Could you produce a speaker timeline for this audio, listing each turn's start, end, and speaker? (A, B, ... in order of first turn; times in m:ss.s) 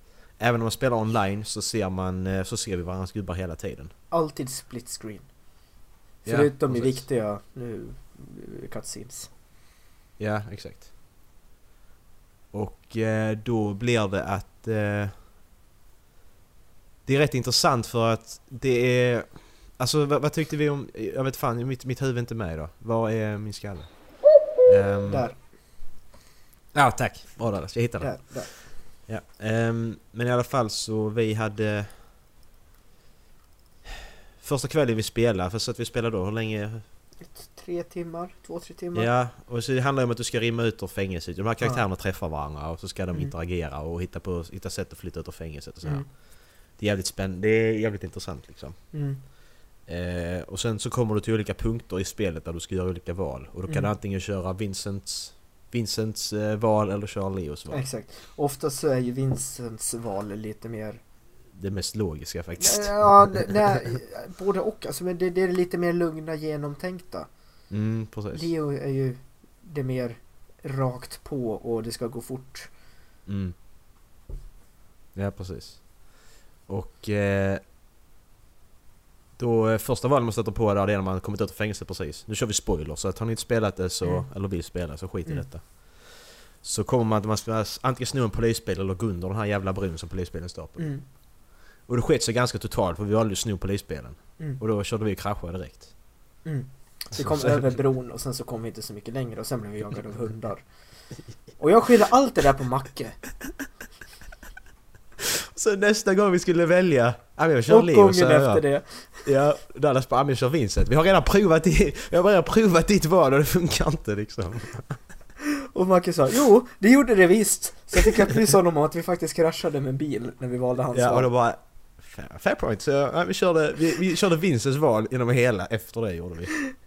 0:00.4-0:03.9 A
0:04.1-0:05.3 B
0:06.2-0:07.0 A
0:06.2-0:09.3 B
0:10.2-0:10.9 A
0:12.5-0:15.1 A
0:17.1-0:24.0 A
0:24.6-0:25.3 A
0:25.1-0:25.4 B
0:26.7-0:28.3 A
0:28.0-0:28.5 B
0:29.1-0:31.9 A
0:34.4-0:36.8 A
0:37.2-0:39.1 B
0:39.0-0:46.1 A
0:46.8-0:48.8 A
0:48.9-0:49.2 B
0:49.9-0:57.8 A
0:57.7-1:01.0 B
1:01.6-1:03.7 A
1:02.6-1:07.3 B
1:07.7-1:08.5 A
1:08.3-1:12.7 B
1:13.3-1:13.6 A
1:15.2-1:15.9 A
1:16.7-1:17.6 A
1:19.4-1:30.9 A
1:24.0-1:24.3 B
1:30.8-1:31.0 B
1:31.9-1:35.9 A
1:36.4-1:40.6 B
1:37.2-1:37.8 A
1:41.6-1:43.2 B
1:45.2-1:48.6 A
1:47.7-1:49.3 B
1:49.2-1:55.0 A
1:55.7-2:01.3 B
2:00.9-2:06.5 A